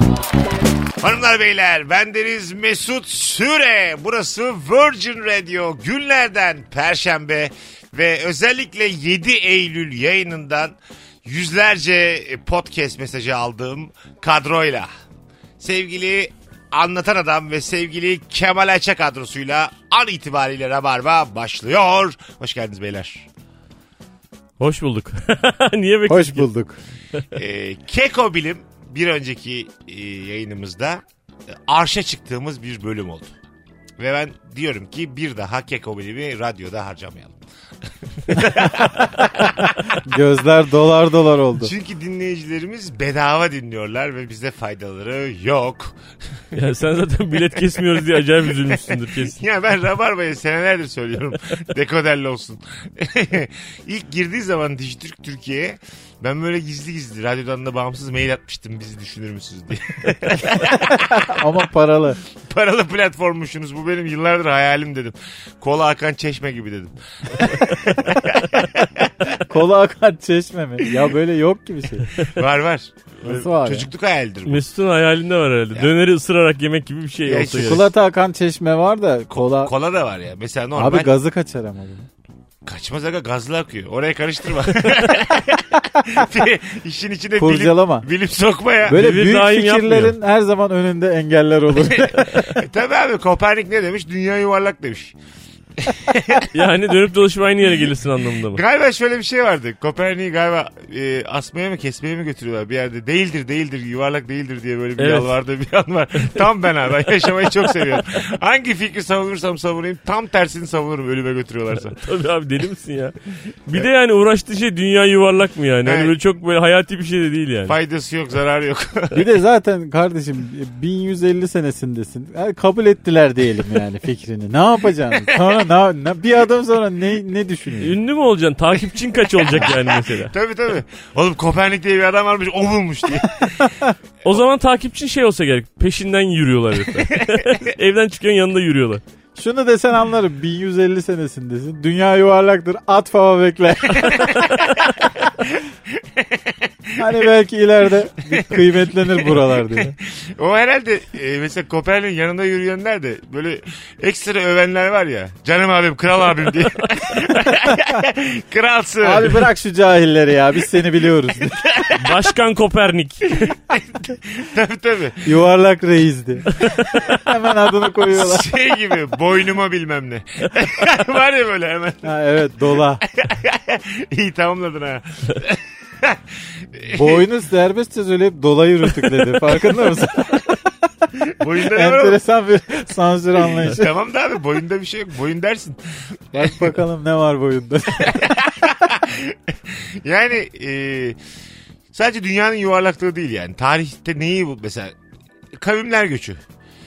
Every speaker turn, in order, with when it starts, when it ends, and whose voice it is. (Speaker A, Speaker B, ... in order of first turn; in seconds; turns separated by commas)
Speaker A: 1.0-14.9, Speaker A: 15.6-23.3, Speaker B: 24.6-26.5, Speaker C: 26.1-26.8, Speaker A: 27.3-31.0, Speaker A: 31.7-33.3, Speaker A: 34.0-37.4, Speaker A: 38.1-39.9, Speaker C: 40.0-41.7, Speaker A: 41.6-46.4, Speaker B: 46.5-49.4, Speaker A: 48.5-61.5, Speaker C: 60.9-62.2, Speaker A: 62.3-69.3, Speaker C: 69.4-72.2, Speaker A: 72.2-74.7, Speaker C: 73.2-73.9, Speaker B: 74.4-77.9, Speaker A: 77.2-77.9, Speaker C: 77.5-79.7, Speaker A: 79.3-81.1, Speaker C: 80.8-82.1, Speaker A: 82.6-89.0, Speaker C: 87.4-88.1, Speaker C: 88.8-92.5, Speaker B: 88.9-90.2, Speaker A: 91.7-95.1, Speaker A: 95.8-96.5, Speaker B: 96.5-98.6, Speaker A: 98.5-112.0, Speaker B: 105.0-105.3, Speaker B: 106.2-106.5, Speaker B: 107.1-108.0, Speaker B: 111.8-117.8, Speaker A: 115.8-116.2, Speaker A: 117.7-119.2, Speaker C: 119.1-128.0, Speaker A: 125.1-125.5, Speaker B: 127.8-130.3, Speaker A: 129.3-133.7, Speaker C: 133.6-133.9, Speaker B: 134.2-139.0, Speaker A: 137.1-137.4, Speaker C: 139.3-144.5, Speaker A: 144.0-147.3, Speaker C: 147.0-149.9, Speaker A: 148.3-159.5, Speaker C: 159.0-161.6, Speaker A: 161.4-162.2, Speaker B: 161.9-163.5, Speaker A: 163.5-165.3, Speaker C: 165.2-168.5, Speaker A: 168.0-172.1, Speaker C: 172.0-173.0, Speaker A: 172.7-177.3, Speaker C: 176.9-180.6, Speaker A: 181.3-182.2, Speaker C: 181.6-183.9, Speaker A: 183.4-186.5, Speaker C: 186.3-188.5, Speaker A: 188.0-191.2, Speaker A: 191.9-194.9, Speaker A: 195.5-196.4